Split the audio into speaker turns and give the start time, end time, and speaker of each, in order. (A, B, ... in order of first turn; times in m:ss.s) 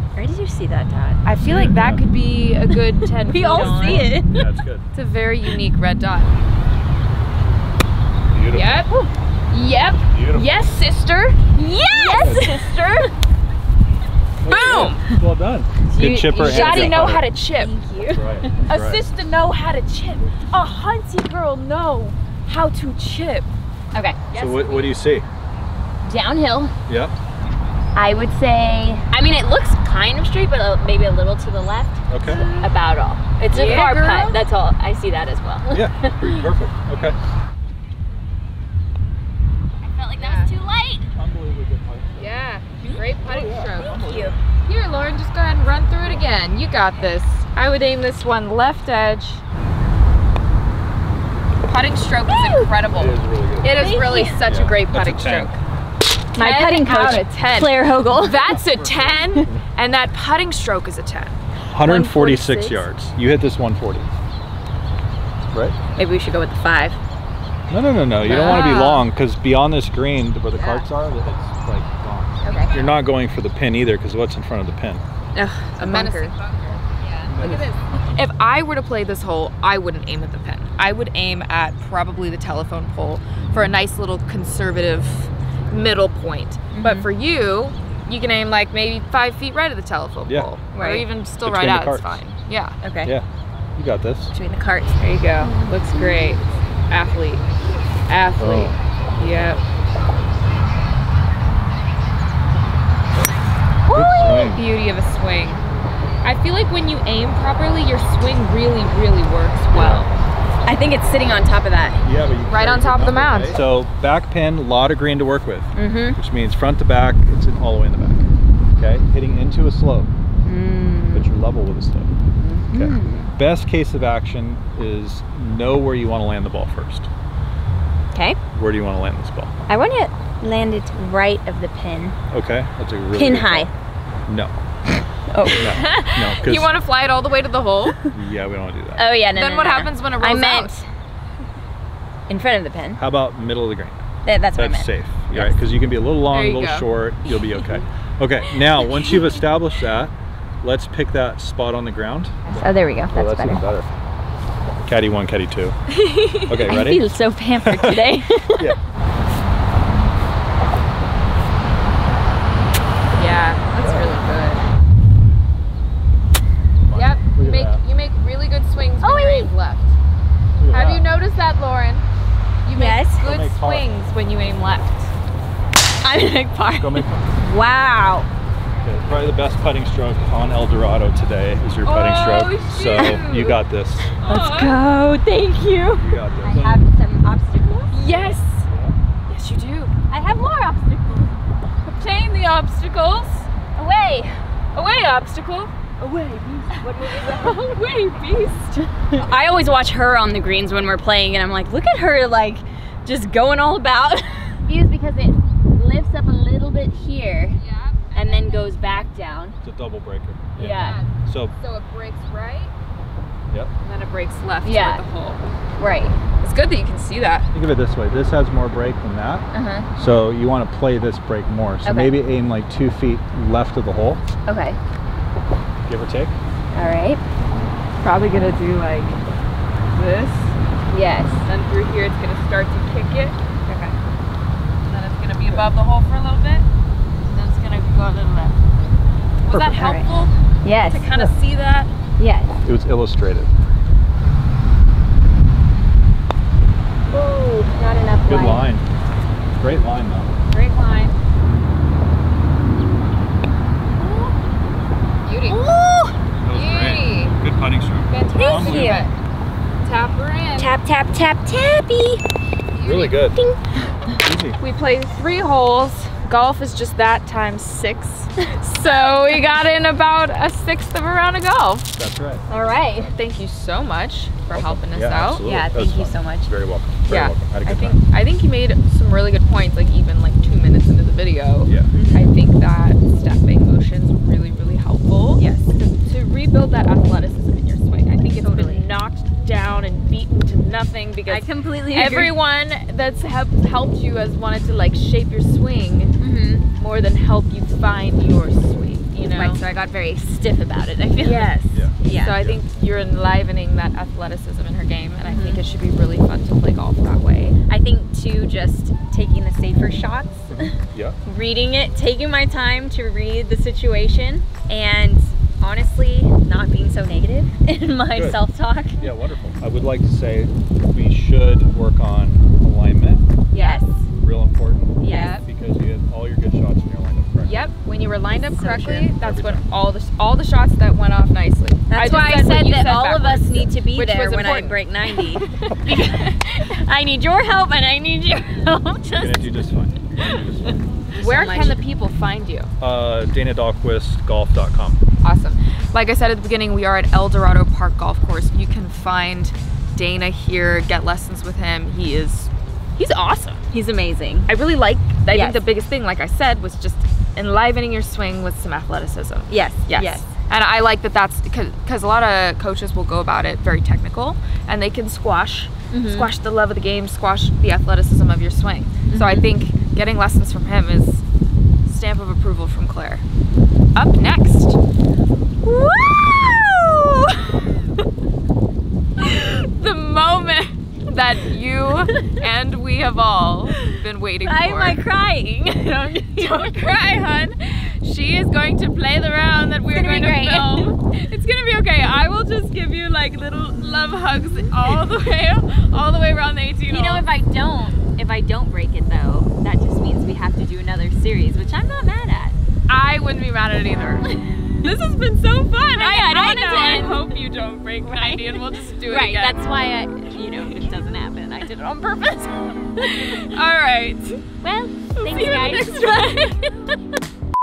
0:00.2-0:01.2 A
0:01.2-0:04.1 B
0:01.4-0:02.0 C
0:02.7-0:04.4 A
0:03.6-0:04.9 C
0:04.9-0:06.3 B
0:08.3-0:08.8 C
0:08.5-0:08.9 B
0:09.5-0:13.1 B
0:10.1-0:10.5 C
0:11.5-0:12.9 A
0:12.2-0:12.5 C
0:14.4-0:17.2 C
0:14.4-0:15.1 B
0:15.9-0:17.7 B
0:16.3-0:18.5 A
0:18.1-0:19.0 C
0:18.7-0:23.5 B
0:23.9-0:24.2 A
0:24.3-0:25.0 B
0:24.3-0:25.2 C
0:26.0-0:26.7 A
0:26.9-0:27.1 C
0:28.0-0:36.4 A
0:32.1-0:32.5 C
0:32.2-0:32.7 B
0:33.4-0:34.4 B
0:33.5-0:33.8 C
0:35.7-0:37.2 C
0:39.8-0:41.1 A
0:40.2-0:40.5 B
0:41.1-0:42.3 C
0:42.2-0:44.1 B
0:42.8-0:44.4 A
0:43.3-0:44.4 C
0:44.6-0:49.4 B
0:46.0-0:46.3 C
0:51.6-0:55.6 B
0:52.3-0:52.7 A
0:52.9-0:53.8 C
0:53.7-0:54.4 A
0:54.4-0:55.5 C
0:56.3-0:58.5 A
0:56.3-1:01.4 B
0:58.3-0:59.6 C
1:01.7-1:04.1 C
1:01.8-1:02.8 A
1:05.5-1:05.8 C
1:05.9-1:07.0 A
1:07.7-1:15.0 C
1:08.2-1:09.0 A
1:08.5-1:08.8 B
1:10.5-1:10.9 B
1:12.4-1:12.7 A
1:12.4-1:13.1 B
1:15.3-1:16.3 A
1:15.8-1:32.8 B
1:17.0-1:17.4 A
1:17.3-1:17.6 C
1:23.4-1:23.7 C
1:26.7-1:27.0 A
1:30.7-1:31.0 A
1:31.4-1:32.2 C
1:32.8-1:33.1 A
1:33.0-1:34.3 C
1:34.3-1:35.7 A
1:35.0-1:37.5 B
1:38.1-1:39.6 B
1:38.4-1:39.5 C
1:43.9-1:44.6 C
1:43.9-1:45.6 B
1:43.9-1:44.4 A
1:46.2-1:50.1 B
1:49.7-1:50.1 C
1:50.6-1:52.0 A
1:52.0-2:00.1 C
1:52.5-1:53.6 B
1:55.7-1:56.2 A
2:00.4-2:01.3 A
2:01.1-2:02.1 C
2:02.4-2:03.3 A
2:02.7-2:07.1 C
2:08.1-2:08.4 A
2:08.5-2:09.6 C
2:09.7-2:12.2 A
2:12.3-2:13.7 C
2:13.1-2:13.7 A
2:14.3-2:14.5 C
2:15.3-2:16.2 A
2:15.4-2:16.7 C
2:16.3-2:18.0 B
2:18.1-2:19.0 C
2:19.0-2:20.8 A
2:19.3-2:20.7 B
2:22.3-2:23.0 A
2:23.0-2:24.0 C
2:24.2-2:25.6 A
2:24.5-2:33.9 C
2:26.3-2:26.9 B
2:27.3-2:27.8 A
2:28.5-2:29.3 A
2:32.5-2:33.6 A
2:34.8-2:35.8 C
2:36.0-2:36.6 B
2:36.5-2:37.0 C
2:36.5-2:38.8 A
2:37.6-2:38.0 C
2:43.1-2:44.6 B
2:43.8-2:44.1 C
2:46.8-2:47.8 C
2:46.9-2:50.0 B
2:49.0-2:49.5 A
2:50.6-2:51.1 C
2:50.7-2:52.0 B
2:52.6-2:55.1 B
2:52.7-2:53.2 A
2:53.2-2:53.9 C
2:56.0-2:58.3 A
2:56.8-2:57.2 C
2:58.8-3:04.1 C
3:01.8-3:03.6 B
3:03.0-3:03.2 A
3:04.2-3:04.8 B
3:04.2-3:08.4 A
3:05.9-3:06.8 C
3:07.9-3:08.7 B
3:08.7-3:09.0 C
3:09.3-3:09.9 B
3:10.1-3:11.4 A
3:11.8-3:13.5 B
3:13.8-3:14.4 A
3:14.7-3:15.7 B
3:16.0-3:17.8 A
3:16.8-3:18.9 B
3:19.1-3:27.6 A
3:27.6-3:28.8 B
3:28.1-3:29.6 A
3:29.6-3:31.5 C
3:30.6-3:31.0 A
3:30.6-3:32.7 B
3:33.8-3:35.4 B
3:34.6-3:35.0 A
3:35.8-3:36.2 A
3:36.4-3:37.5 B
3:37.5-3:44.2 C
3:39.5-3:39.9 A
3:41.8-3:42.2 A
3:44.5-3:44.8 A
3:45.9-3:46.4 C
3:46.7-3:47.2 A
3:48.0-3:49.2 B
3:49.9-3:50.6 B
3:50.9-3:51.4 A
3:51.4-3:53.4 B
3:53.7-3:53.9 A
3:54.9-3:56.6 B
3:57.2-3:58.6 B
3:59.4-4:00.3 B
3:59.6-4:01.1 A
4:00.9-4:01.9 B
4:02.2-4:02.5 A
4:02.6-4:03.5 C
4:07.1-4:08.7 A
4:08.2-4:08.8 C
4:09.6-4:10.3 C
4:10.5-4:11.1 B
4:10.5-4:11.1 A
4:14.0-4:14.3 A
4:15.2-4:15.6 B
4:15.4-4:16.2 A
4:16.4-4:19.0 C
4:16.5-4:17.4 B
4:18.1-4:19.1 B
4:18.3-4:19.1 A
4:19.8-4:20.7 B
4:20.5-4:22.2 A
4:22.7-4:23.2 B
4:22.8-4:23.4 C
4:23.3-4:24.2 A
4:24.2-4:24.6 C
4:24.6-4:31.9 B
4:31.9-4:32.4 C
4:32.5-4:33.1 A
4:33.0-4:35.4 B
4:34.5-4:38.0 C
4:35.4-4:36.5 A
4:37.1-4:56.1 B
4:41.6-4:41.9 C
4:41.9-4:42.3 A
4:45.4-4:45.7 A
4:48.4-4:48.9 A
4:51.2-4:52.3 A
4:56.2-4:56.6 A
4:56.8-4:59.6 B
4:59.2-5:02.4 A
5:01.2-5:01.5 B
5:01.7-5:02.6 C
5:02.1-5:07.6 B
5:05.2-5:05.6 A
5:07.7-5:19.0 A
5:10.5-5:11.2 C
5:18.1-5:18.4 C
5:19.0-5:23.2 C
5:23.5-5:23.8 B
5:23.5-5:24.0 A
5:24.2-5:27.7 C
5:25.0-5:25.4 A
5:25.1-5:25.4 B
5:27.4-5:36.4 B
5:28.4-5:29.1 A
5:29.2-5:29.6 C
5:31.9-5:39.7 A
5:39.2-5:40.8 C
5:40.2-5:41.9 A
5:41.2-5:42.7 B
5:42.8-5:45.0 C
5:45.2-5:53.6 B
5:53.7-5:54.5 A
5:54.5-6:11.2 B
5:55.3-5:55.6 A
5:59.5-6:00.3 A
6:05.9-6:06.3 A
6:09.1-6:09.5 A
6:11.8-6:13.2 B
6:13.9-6:14.8 B
6:15.6-6:17.7 A
6:19.2-6:25.0 B
6:24.4-6:26.7 A
6:26.4-6:37.3 B
6:29.9-6:30.9 A
6:36.9-6:42.6 A
6:42.9-6:49.6 B
6:45.9-6:47.4 A
6:48.0-6:53.5 A
6:53.0-6:54.4 B
6:54.6-6:56.6 A
6:55.2-6:56.6 B